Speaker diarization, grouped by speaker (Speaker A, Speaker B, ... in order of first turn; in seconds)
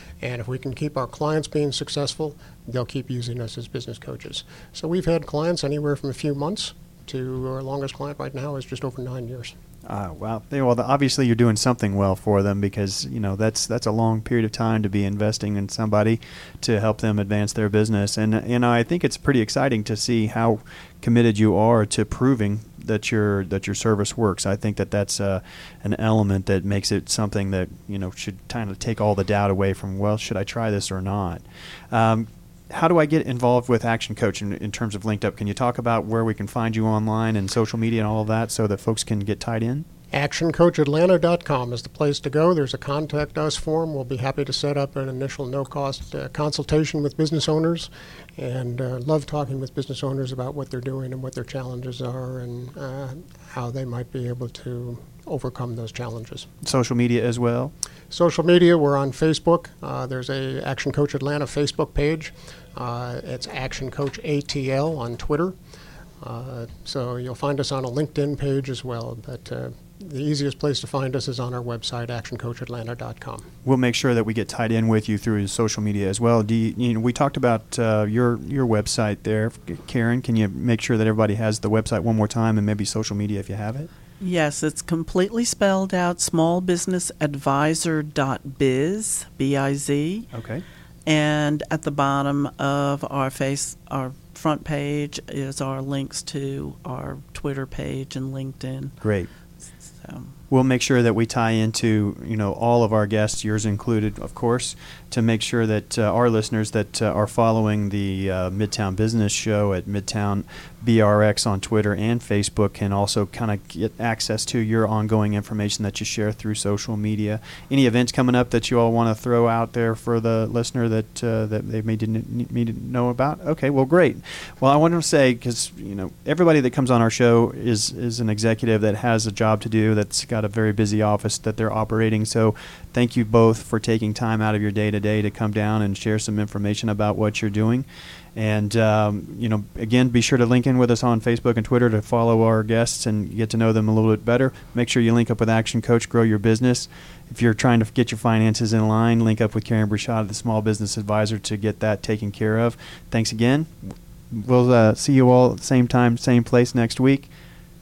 Speaker A: 0.2-9.6, 40.1-56.5, 58.1-65.6, 66.2-73.5
Speaker B: 9.8-39.9, 56.6-57.7, 73.7-83.9, 90.3-90.7, 99.0-99.3, 100.5-157.3
Speaker C: 84.2-90.3, 91.1-99.0, 100.0-100.3